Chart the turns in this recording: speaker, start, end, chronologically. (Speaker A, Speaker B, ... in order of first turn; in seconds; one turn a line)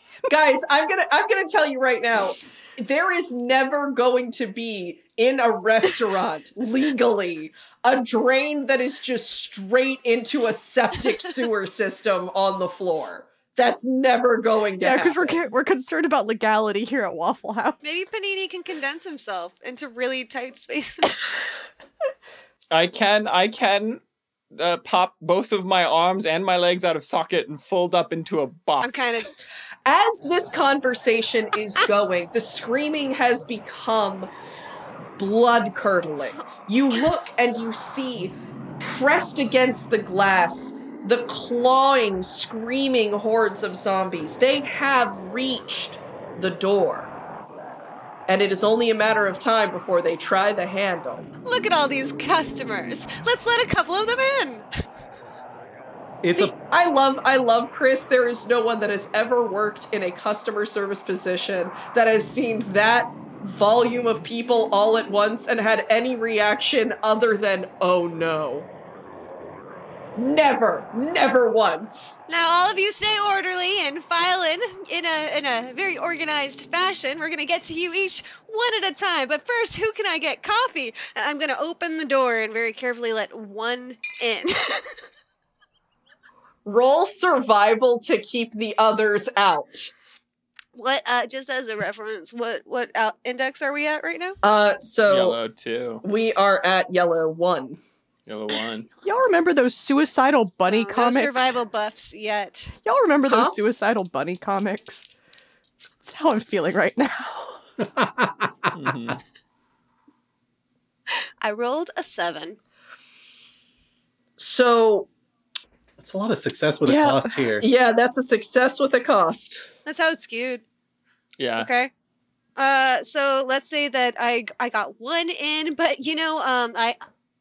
Speaker A: 0.3-15.4
Speaker B: 14.8-17.8
Speaker C: 17.8-21.5
Speaker D: 22.7-24.0
Speaker D: 24.6-29.3
Speaker C: 28.8-29.3
Speaker A: 29.9-34.3
Speaker A: 35.2-47.1
Speaker A: 48.3-51.3
Speaker C: 51.5-54.6
Speaker E: 56.2-56.5
Speaker A: 56.3-68.7
Speaker A: 70.2-72.2
Speaker C: 72.3-84.9
Speaker A: 86.7-89.9
Speaker C: 90.8-94.4
Speaker A: 94.4-95.4
Speaker D: 95.1-96.0
Speaker A: 96.0-97.8
Speaker D: 98.3-98.9
Speaker B: 99.0-101.4
Speaker C: 100.7-102.7
Speaker B: 102.9-105.0
Speaker A: 103.3-103.6
Speaker B: 106.0-107.5
Speaker E: 107.8-108.7
Speaker D: 108.7-109.2
Speaker C: 111.4-112.6
Speaker A: 114.4-115.1
Speaker E: 116.0-117.7
Speaker B: 116.9-117.1
Speaker A: 117.6-119.7
Speaker C: 119.9-120.6
Speaker D: 121.4-121.7
Speaker C: 121.6-121.9
Speaker C: 122.6-127.0